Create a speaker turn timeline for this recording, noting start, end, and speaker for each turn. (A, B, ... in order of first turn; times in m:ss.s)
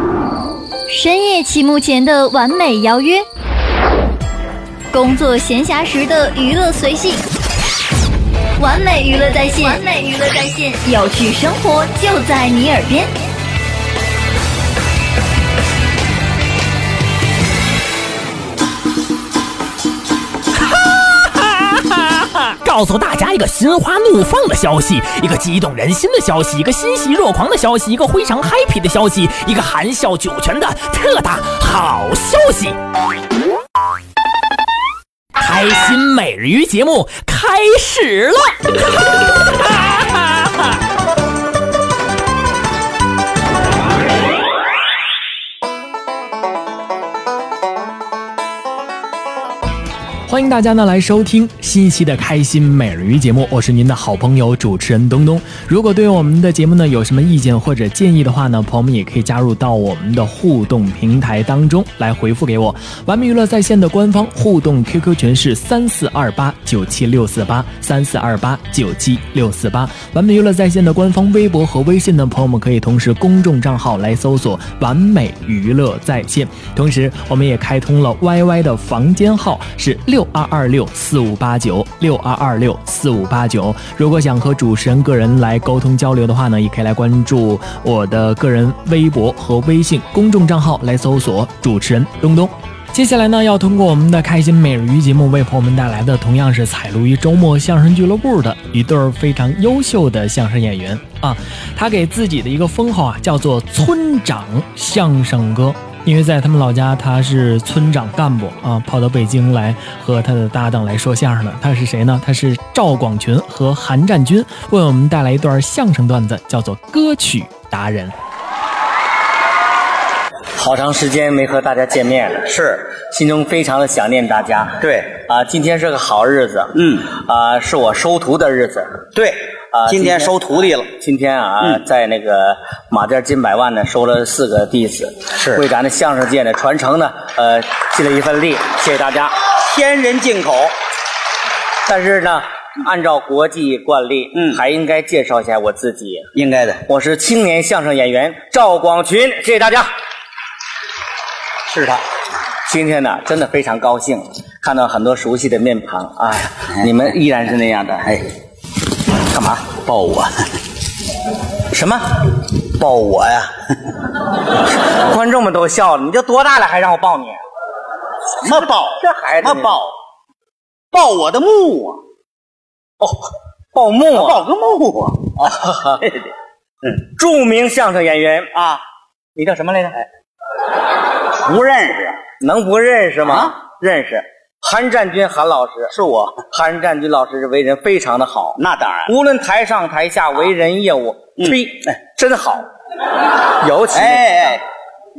0:00.9-0:03.2 A
0:04.9-0:07.2 A
0:08.6-0:13.1 A
0:20.7-0:32.8 B
0:35.4-0:38.9 B
0:39.5-0:40.3 B
0:50.3-1:58.1 C
2:00.6-2:08.9 D
2:02.5-2:02.8 E
2:04.8-2:05.1 E
2:06.7-2:07.1 E
2:09.1-2:10.9 E
2:09.7-2:10.3 D
2:10.9-2:19.3 D
2:15.4-2:15.6 E
2:19.6-2:20.7 E
2:21.8-2:26.2 D
2:26.3-2:26.8 E
2:26.8-2:29.9 D
2:31.7-2:32.0 E
2:32.7-2:38.1 D
2:39.3-2:39.8 D
2:39.7-2:40.5 E
2:41.7-2:42.2 D
2:42.7-2:43.5 E
2:44.8-2:47.4 D
2:48.4-2:49.9 E
2:49.0-2:49.8 D
2:50.9-2:52.0 E
2:53.0-2:54.4 D
2:54.1-2:56.3 E
2:55.5-2:56.0 D
2:57.1-2:58.5 D
2:58.5-2:58.8 E
2:59.4-3:00.0 D
3:01.3-3:02.2 E
3:02.4-3:05.9 D
3:03.2-3:03.5 E
3:05.9-3:06.4 E
3:06.5-3:12.6 D
3:08.6-3:09.1 E
3:11.4-3:11.9 E
3:13.6-3:14.5 D
3:13.9-3:14.6 E